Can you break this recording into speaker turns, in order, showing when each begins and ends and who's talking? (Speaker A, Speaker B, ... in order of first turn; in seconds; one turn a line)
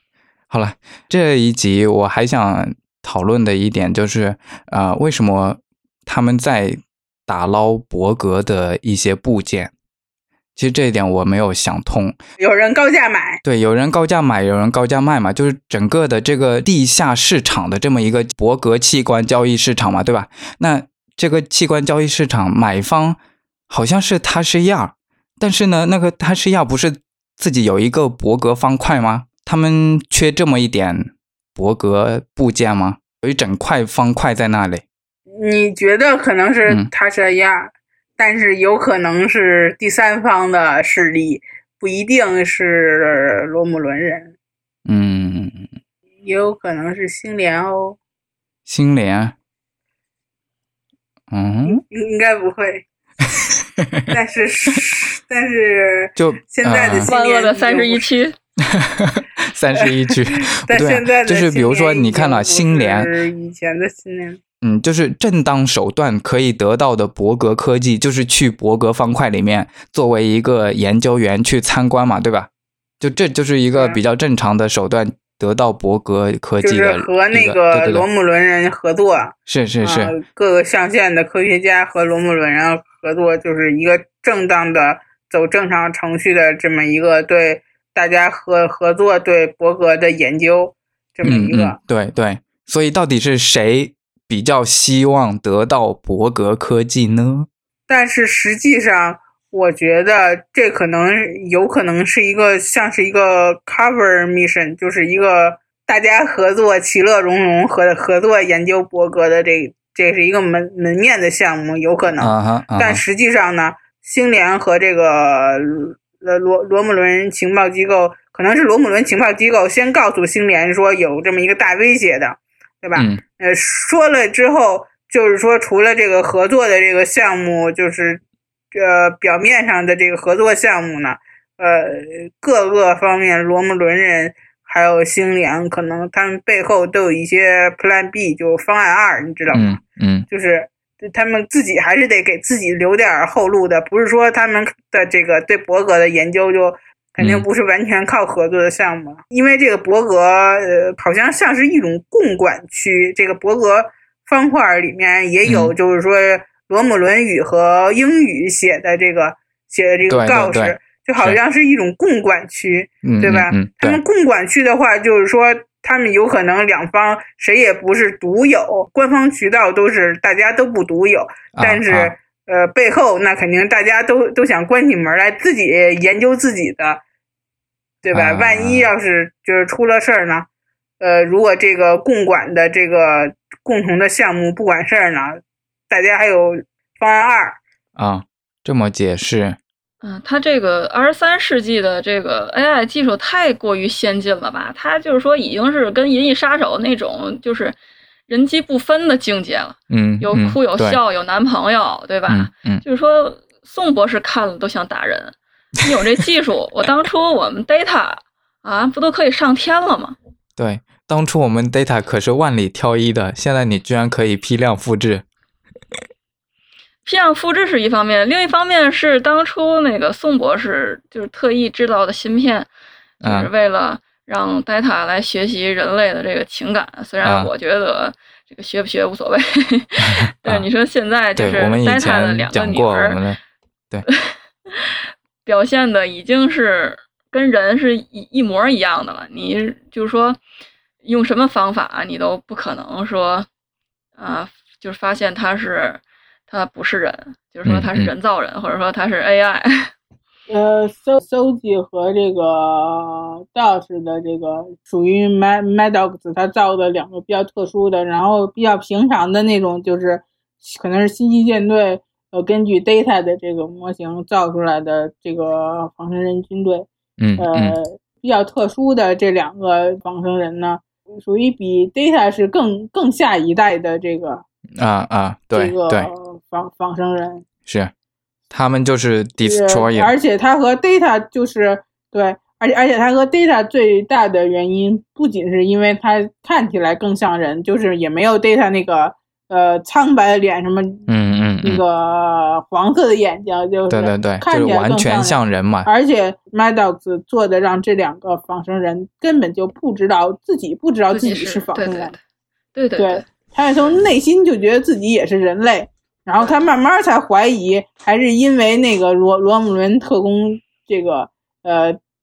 Speaker A: 0.5-9.7
Speaker A: 10.6-12.2
Speaker B: 12.4-13.4
Speaker A: 13.4-23.2
Speaker A: 23.7-34.8
Speaker B: 35.4-44.3
Speaker A: 44.9-45.7
Speaker B: 46.2-48.0
Speaker A: 48.6-49.3
Speaker A: 51.3-51.8
Speaker B: 51.6-52.8
Speaker A: 53.4-54.1
Speaker B: 54.1-58.1
Speaker A: 56.2-57.1
Speaker C: 57.0-58.4
Speaker A: 58.7-63.1
Speaker B: 59.7-64.4
Speaker A: 64.6-72.5
Speaker A: 73.0-78.1
Speaker B: 73.7-74.0
Speaker B: 76.6-91.8
Speaker A: 79.5-80.1
Speaker A: 91.2-97.5
Speaker B: 97.9-128.2
Speaker A: 112.2-113.0
Speaker A: 122.9-123.2
Speaker B: 128.7-177.0
Speaker A: 139.5-140.2
Speaker A: 147.2-147.4
Speaker A: 155.4-155.7
Speaker A: 160.1-161.4
Speaker A: 163.0-164.0
Speaker A: 171.6-172.1
Speaker B: 178.0-180.4
Speaker A: 178.1-178.9
Speaker B: 181.0-187.6
Speaker A: 187.9-189.6
Speaker C: 190.0-197.8
Speaker C: 198.3-210.2
Speaker A: 199.9-201.0
Speaker A: 202.3-202.8
Speaker A: 210.6-215.2
Speaker C: 217.0-222.7
Speaker C: 223.2-233.2
Speaker A: 223.2-223.5
Speaker A: 227.2-227.5
Speaker A: 230.0-230.7
Speaker A: 231.4-233.4
Speaker C: 234.1-234.9
Speaker C: 235.4-240.4
Speaker C: 241.0-243.5
Speaker C: 244.2-249.9
Speaker A: 247.6-248.1
Speaker B: 250.5-266.9
Speaker A: 267.2-267.8
Speaker B: 267.4-274.4
Speaker A: 274.8-276.1
Speaker B: 275.5-277.4
Speaker A: 277.7-277.9
Speaker A: 278.5-280.1
Speaker B: 279.4-291.1
Speaker A: 291.1-291.8
Speaker B: 291.6-302.1
Speaker A: 293.9-295.9
Speaker C: 301.1-302.2
Speaker C: 302.7-303.2
Speaker B: 303.0-312.0